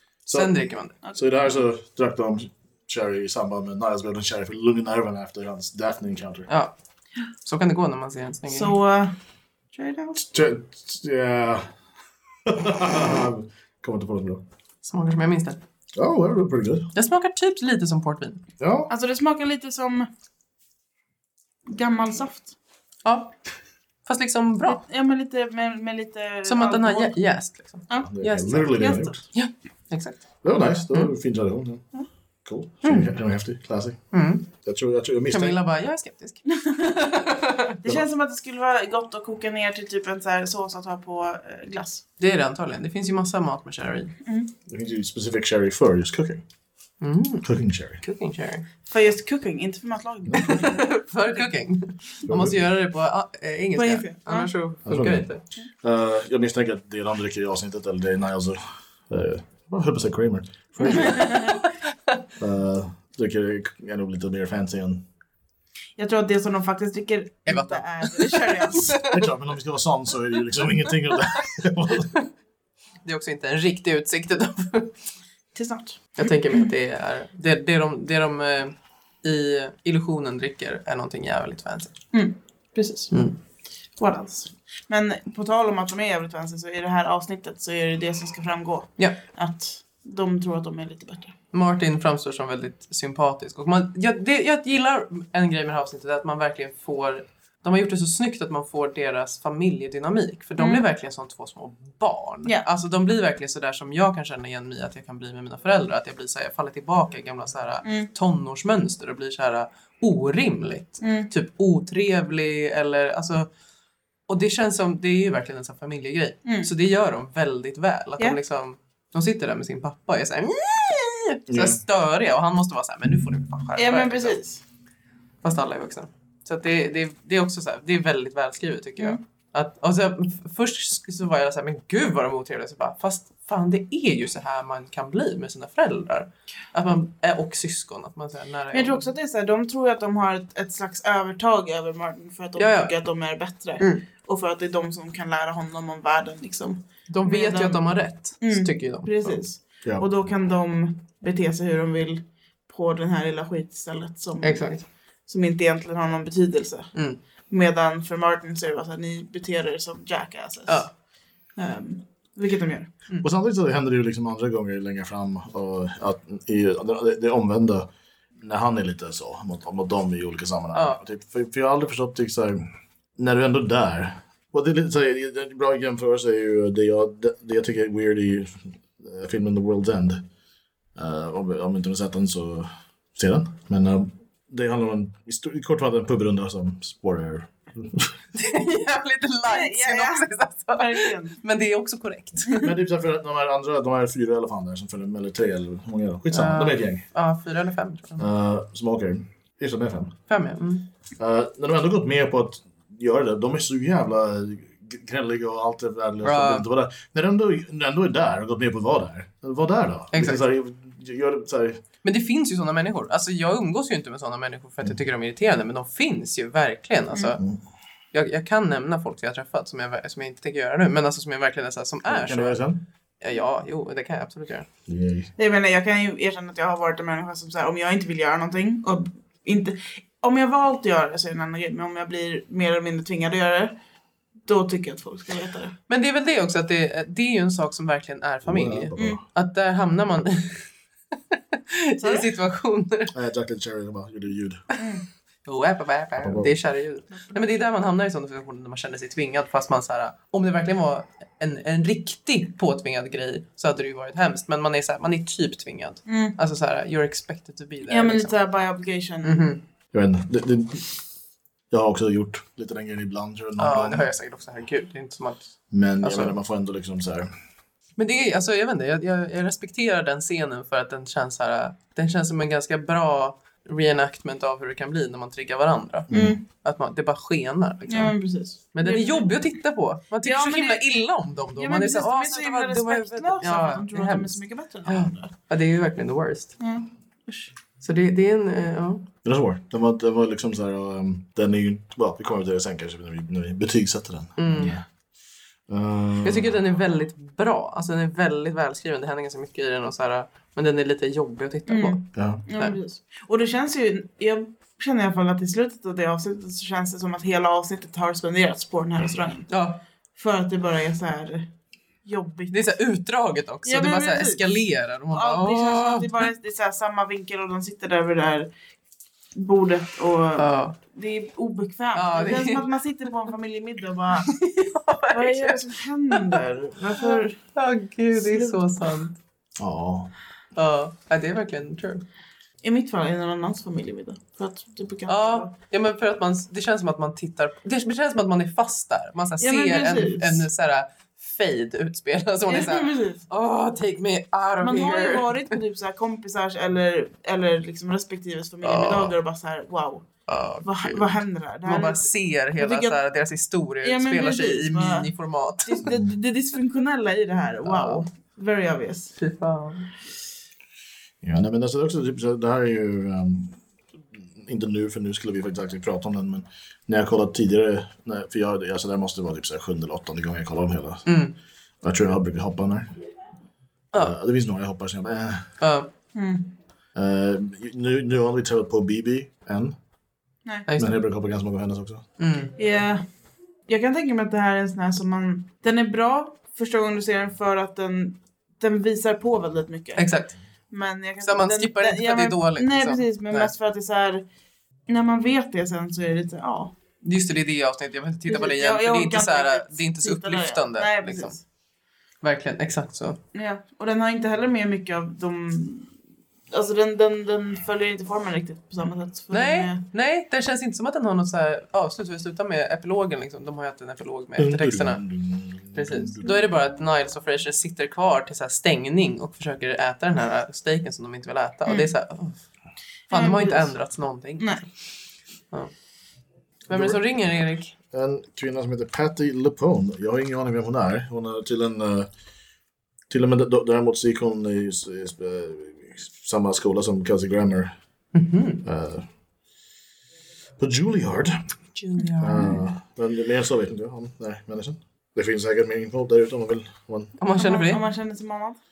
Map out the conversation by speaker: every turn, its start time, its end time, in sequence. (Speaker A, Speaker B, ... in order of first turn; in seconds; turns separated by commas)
Speaker A: 0.3-6.5, Speaker B: 0.3-1.0, Speaker B: 6.5-6.8, Speaker B: 7.4-8.8, Speaker C: 8.5-9.2, Speaker C: 9.7-10.2, Speaker A: 10.2-11.7, Speaker A: 12.4-14.4, Speaker B: 14.8-15.6, Speaker A: 15.9-16.9, Speaker B: 16.9-18.4, Speaker A: 18.6-18.9, Speaker C: 18.9-20.1, Speaker C: 21.7-22.5, Speaker B: 23.1-23.4, Speaker B: 24.1-24.8, Speaker C: 24.7-27.2, Speaker B: 26.4-30.2, Speaker A: 28.1-29.2, Speaker C: 28.7-29.1, Speaker A: 30.4-31.9, Speaker A: 32.5-35.6, Speaker C: 32.8-33.1, Speaker B: 34.1-34.5, Speaker B: 35.3-37.8, Speaker C: 36.5-37.0, Speaker C: 37.8-42.0, Speaker B: 42.2-44.2, Speaker C: 44.2-44.5, Speaker A: 44.7-46.4, Speaker B: 47.0-47.5, Speaker A: 47.4-48.0, Speaker B: 48.0-48.7, Speaker C: 48.9-51.0, Speaker B: 50.3-55.4, Speaker A: 52.3-52.6, Speaker C: 53.8-54.5, Speaker A: 54.9-61.3, Speaker B: 60.8-62.2, Speaker C: 60.8-61.6, Speaker A: 62.4-65.0, Speaker C: 66.0-69.0, Speaker B: 67.5-69.1, Speaker A: 69.0-72.1, Speaker B: 73.0-75.0, Speaker C: 75.5-76.7, Speaker B: 76.2-82.0, Speaker C: 82.1-83.2, Speaker B: 83.1-83.4, Speaker C: 84.0-91.4, Speaker B: 91.5-113.5, Speaker C: 100.6-100.8, Speaker C: 107.8-108.1, Speaker C: 111.0-111.3, Speaker B: 114.3-124.4, Speaker C: 116.5-116.7, Speaker A: 121.5-121.8, Speaker C: 123.8-124.6, Speaker B: 125.4-139.1, Speaker C: 138.7-157.0, Speaker B: 142.6-142.9, Speaker B: 147.1-149.4, Speaker B: 154.4-154.8, Speaker B: 156.9-157.2, Speaker C: 157.5-160.9, Speaker C: 161.6-162.9, Speaker A: 163.2-180.3, Speaker B: 170.7-171.0, Speaker A: 180.9-188.2, Speaker B: 188.3-192.7, Speaker C: 189.5-191.4, Speaker A: 192.6-197.0, Speaker B: 196.3-198.3, Speaker A: 198.2-200.2, Speaker B: 200.3-200.9, Speaker A: 201.2-211.8, Speaker B: 206.2-206.7, Speaker B: 210.1-210.4, Speaker B: 212.0-217.4, Speaker B: 218.1-222.6, Speaker A: 222.1-222.8, Speaker B: 223.2-224.7, Speaker A: 224.9-225.3, Speaker C: 225.4-233.8, Speaker C: 234.5-235.8, Speaker B: 235.9-240.7, Speaker A: 238.4-239.2, Speaker C: 239.0-239.2, Speaker B: 241.3-243.2, Speaker C: 242.0-242.3, Speaker A: 243.1-244.6, Speaker C: 244.8-245.0, Speaker B: 245.4-258.4, Speaker A: 246.2-246.6, Speaker C: 256.1-256.4, Speaker C: 257.9-259.5, Speaker B: 259.2-259.6, Speaker A: 259.9-260.9, Speaker A: 261.7-264.1, Speaker B: 263.6-266.4, Speaker A: 265.7-267.3, Speaker B: 268.0-278.1, Speaker A: 276.1-276.4, Speaker C: 276.1-276.4, Speaker C: 277.9-279.4, Speaker B: 278.7-286.6, Speaker C: 280.2-280.8, Speaker C: 281.6-285.3, Speaker C: 286.6-287.5, Speaker B: 287.8-289.1, Speaker A: 289.2-294.8, Speaker B: 294.4-294.8, Speaker A: 295.7-296.6, Speaker B: 296.2-302.8, Speaker C: 301.7-309.5, Speaker A: 302.2-302.4, Speaker B: 309.5-309.8, Speaker C: 310.2-311.5, Speaker C: 312.1-312.6, Speaker B: 312.5-316.2, Speaker C: 313.6-314.6, Speaker C: 315.1-318.5, Speaker C: 319.4-324.4, Speaker B: 320.4-320.8, Speaker B: 321.9-322.7, Speaker B: 324.3-326.4, Speaker C: 325.1-327.4, Speaker B: 327.0-329.2, Speaker C: 328.1-328.6, Speaker A: 329.6-330.1, Speaker B: 330.6-332.1, Speaker C: 332.6-335.5, Speaker B: 335.1-345.6, Speaker C: 339.4-340.5, Speaker C: 342.5-343.2, Speaker C: 344.6-350.1, Speaker B: 348.6-349.2, Speaker B: 350.3-355.9, Speaker C: 350.6-353.0, Speaker C: 353.8-355.1, Speaker C: 355.6-359.2, Speaker B: 357.6-358.1, Speaker B: 359.2-359.9, Speaker A: 361.2-363.6, Speaker A: 364.4-371.1, Speaker B: 371.1-371.4, Speaker A: 371.8-372.9, Speaker A: 373.9-375.5, Speaker B: 375.6-375.9, Speaker C: 376.1-376.5, Speaker A: 376.9-379.8, Speaker B: 380.7-380.9, Speaker A: 380.8-382.1, Speaker B: 382.2-382.6, Speaker C: 382.6-383.0, Speaker C: 383.7-390.1, Speaker B: 390.0-390.4, Speaker C: 390.7-394.2, Speaker B: 391.2-393.5, Speaker C: 394.9-396.8, Speaker B: 397.0-401.4, Speaker C: 398.3-401.4, Speaker B: 402.2-403.2, Speaker C: 403.3-405.9, Speaker C: 406.5-409.8, Speaker B: 409.3-415.1, Speaker A: 414.4-416.3, Speaker B: 415.7-422.4, Speaker C: 423.1-423.8, Speaker B: 423.1-424.7, Speaker C: 424.4-424.6, Speaker B: 426.7-427.8, Speaker A: 426.7-432.1, Speaker A: 433.1-437.7, Speaker B: 438.1-438.6, Speaker A: 438.6-439.1, Speaker A: 440.6-441.4, Speaker B: 441.8-442.6, Speaker A: 442.2-447.1, Speaker B: 447.2-447.8, Speaker C: 447.4-448.6